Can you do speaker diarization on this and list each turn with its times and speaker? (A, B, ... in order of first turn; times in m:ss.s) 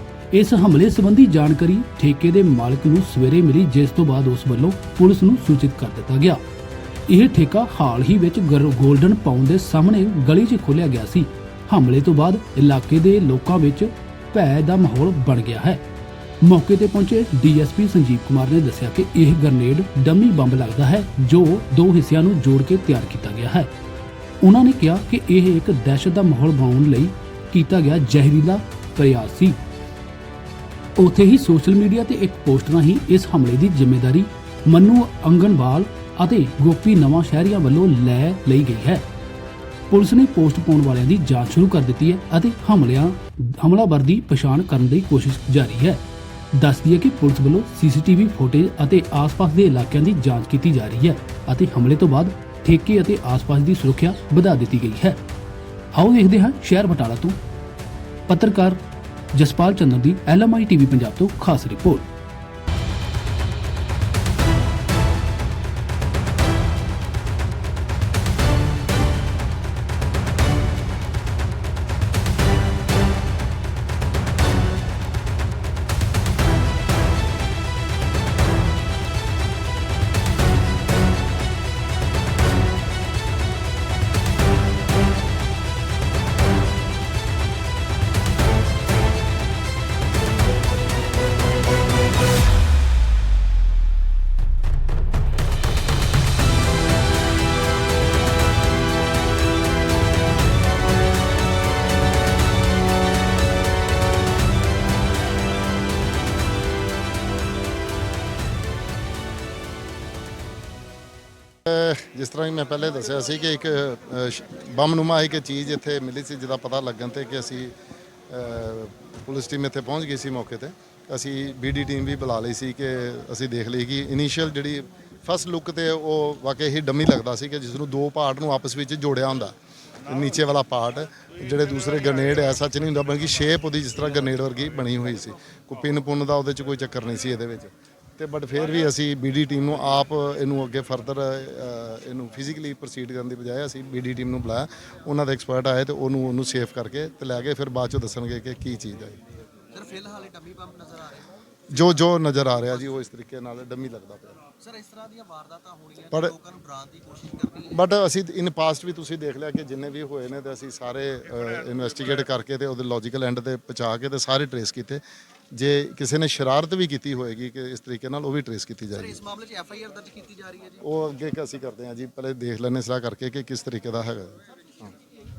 0:00.3-0:06.4 A
0:07.1-0:15.8 A
0:16.4-0:23.7 A
0:24.4-0:29.6 A
0:31.0-0:39.1 A
0:39.9-0:55.2 A
0:55.9-0:57.4 A
0:58.3-0:58.8 A
0:59.3-1:02.1 A
1:51.7-1:57.7 B
1:58.3-2:29.2 B
2:29.7-2:31.3 C
2:31.7-2:34.5 B
2:34.6-2:37.8 C
2:37.7-2:45.0 B
2:45.5-2:49.2 B
2:49.1-2:50.8 C
2:50.8-2:54.9 B